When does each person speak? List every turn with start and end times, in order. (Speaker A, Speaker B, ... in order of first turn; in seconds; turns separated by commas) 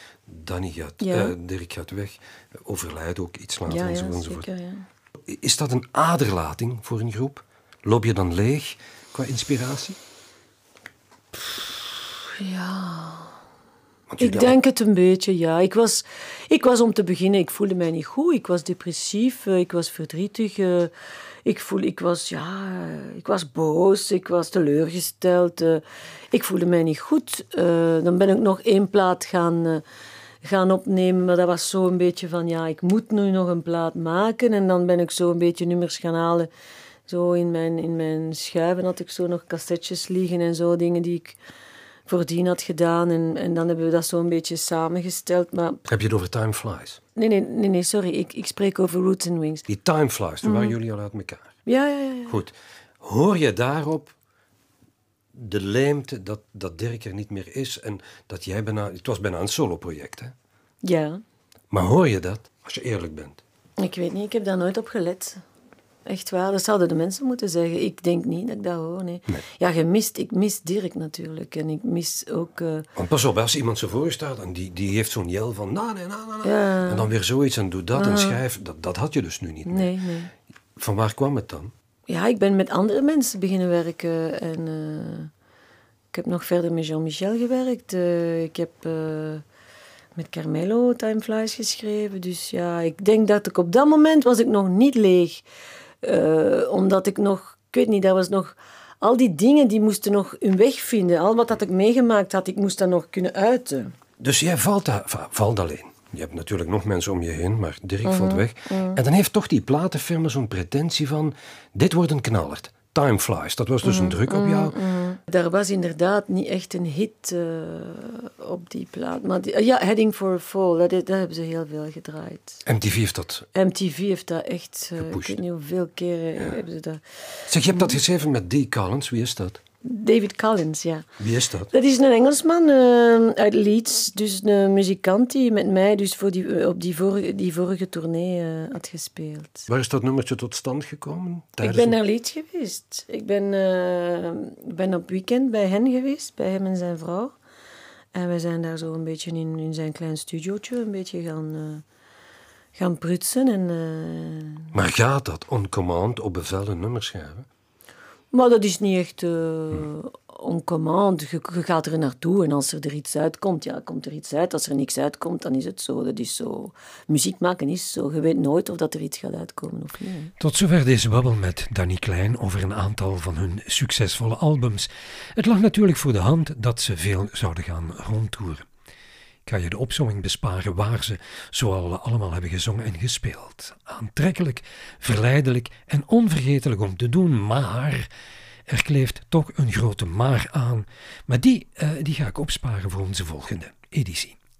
Speaker A: 0.3-4.5, Speaker B: 1.0-1.3, Speaker B: 3.6-4.8, Speaker A: 5.2-10.0, Speaker B: 12.2-13.3, Speaker A: 14.1-14.6, Speaker B: 14.2-20.9, Speaker B: 21.4-29.8, Speaker B: 30.4-36.5, Speaker B: 37.1-41.4, Speaker B: 42.0-45.8, Speaker A: 45.9-47.0, Speaker B: 47.1-49.7, Speaker A: 49.7-51.6, Speaker B: 50.4-50.7, Speaker B: 51.6-52.4, Speaker A: 52.3-54.1, Speaker A: 55.3-60.3, Speaker B: 60.8-61.2, Speaker A: 61.7-63.4, Speaker B: 63.8-65.4, Speaker B: 66.0-72.9, Speaker A: 72.9-79.9, Speaker B: 76.4-77.1, Speaker B: 77.9-78.4, Speaker B: 79.7-80.3, Speaker A: 80.8-81.7, Speaker B: 82.1-85.3, Speaker B: 86.1-89.4, Speaker B: 90.1-95.4, Speaker B: 96.0-103.9, Speaker A: 104.2-114.8, Speaker B: 108.0-109.0, Speaker B: 113.8-122.6, Speaker A: 122.6-123.5, Speaker B: 123.5-127.9, Speaker A: 125.0-125.4, Speaker A: 127.5-129.6, Speaker B: 129.8-131.1, Speaker A: 131.2-131.7, Speaker B: 131.7-139.7, Speaker A: 139.7-142.0, Speaker B: 141.6-147.3, Speaker B: 148.1-151.8, Speaker B: 152.7-154.8, Speaker A: 154.7-157.5, Speaker B: 158.3-170.3, Speaker A: 170.4-178.7, Speaker A: 179.4-188.1, Speaker A: 188.7-194.4